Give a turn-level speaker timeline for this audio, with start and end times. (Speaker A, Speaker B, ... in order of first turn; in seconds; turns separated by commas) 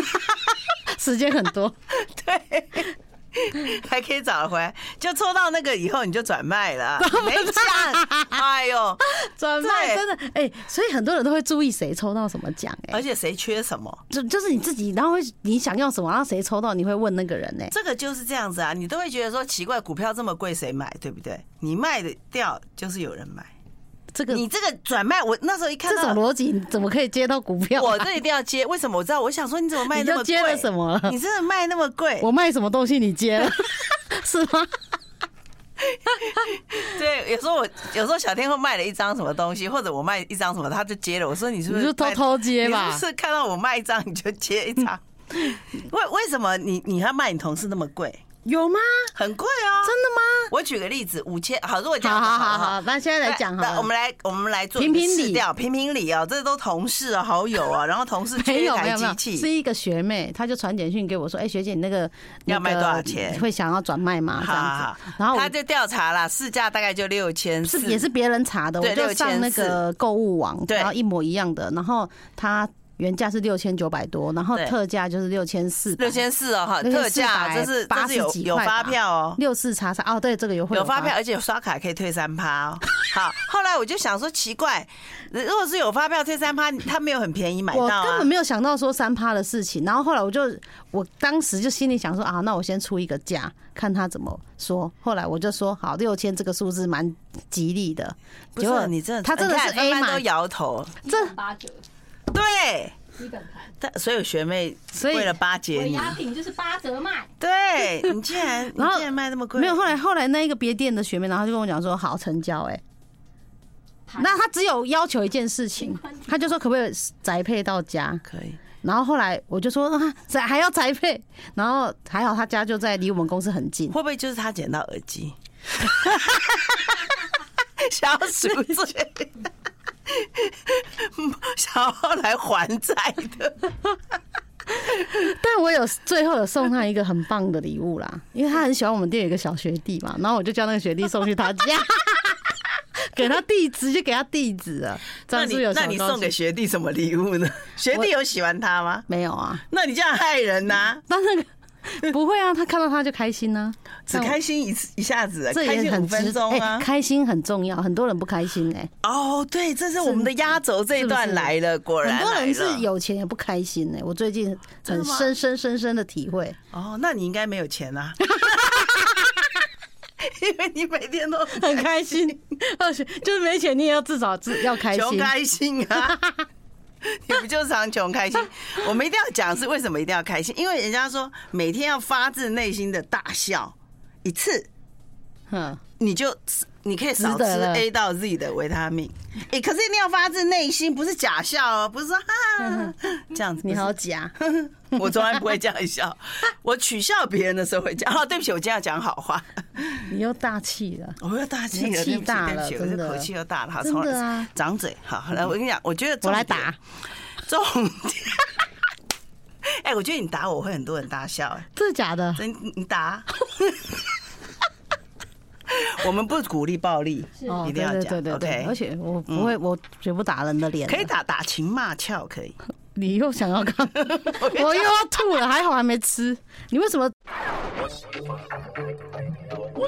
Speaker A: 0.9-1.8, Speaker B: 1.9-9.1, Speaker A: 7.0-8.4, Speaker A: 9.1-13.0, Speaker B: 9.6-10.0, Speaker B: 12.9-14.0, Speaker A: 14.1-17.7, Speaker B: 17.7-23.5, Speaker A: 24.1-24.4, Speaker B: 24.3-26.2, Speaker A: 25.9-28.1, Speaker B: 27.8-32.3, Speaker A: 29.9-31.1, Speaker A: 32.2-34.8, Speaker B: 35.8-48.2, Speaker A: 41.7-43.0, Speaker A: 48.4-49.1, Speaker B: 49.1-49.9, Speaker A: 49.8-50.5, Speaker B: 50.5-59.5, Speaker A: 52.0-53.9, Speaker A: 54.8-55.4, Speaker A: 58.4-65.5, Speaker B: 62.5-63.4, Speaker B: 64.4-68.0, Speaker A: 67.7-76.2, Speaker B: 68.8-69.8, Speaker B: 76.0-79.4, Speaker A: 76.8-81.1, Speaker B: 80.7-88.3, Speaker A: 87.7-100.2, Speaker B: 98.5-101.0, Speaker C: 101.0-101.8, Speaker B: 102.3-103.0, Speaker C: 103.1-103.7, Speaker B: 103.8-106.2, Speaker A: 104.9-105.4, Speaker C: 105.7-107.3, Speaker B: 107.4-109.9, Speaker A: 108.7-112.8, Speaker C: 114.1-114.4, Speaker A: 114.2-118.2, Speaker C: 115.8-116.4, Speaker B: 118.2-118.6, Speaker A: 118.8-123.9, Speaker B: 123.9-127.1, Speaker B: 127.8-129.4, Speaker B: 130.1-133.7, Speaker A: 134.8-146.3, Speaker B: 145.3-149.1, Speaker A: 149.1-149.6, Speaker B: 149.7-151.0, Speaker A: 151.1-154.4, Speaker B: 154.1-156.9, Speaker A: 155.5-158.9, Speaker B: 159.0-162.9, Speaker A: 160.0-160.3, Speaker A: 161.0-166.6, Speaker B: 164.8-165.3, Speaker B: 166.7-168.9, Speaker A: 168.3-169.3, Speaker B: 170.2-172.3, Speaker A: 171.5-175.3, Speaker B: 174.8-176.2, Speaker A: 176.0-176.4, Speaker B: 177.0-184.7, Speaker A: 185.5-185.8, Speaker B: 186.0-200.0, Speaker A: 187.2-187.8, Speaker A: 192.6-192.9, Speaker A: 193.6-194.3, Speaker A: 199.9-201.2, Speaker B: 201.2-206.7, Speaker A: 201.7-203.3, Speaker A: 203.8-204.5, Speaker A: 206.2-206.8, Speaker B: 207.4-208.6, Speaker B: 209.7-211.7, Speaker A: 211.7-212.4, Speaker B: 212.3-214.0, Speaker B: 215.7-218.7, Speaker C: 217.3-217.6, Speaker A: 217.4-221.1, Speaker B: 220.8-222.6, Speaker A: 222.9-227.1, Speaker B: 224.0-224.9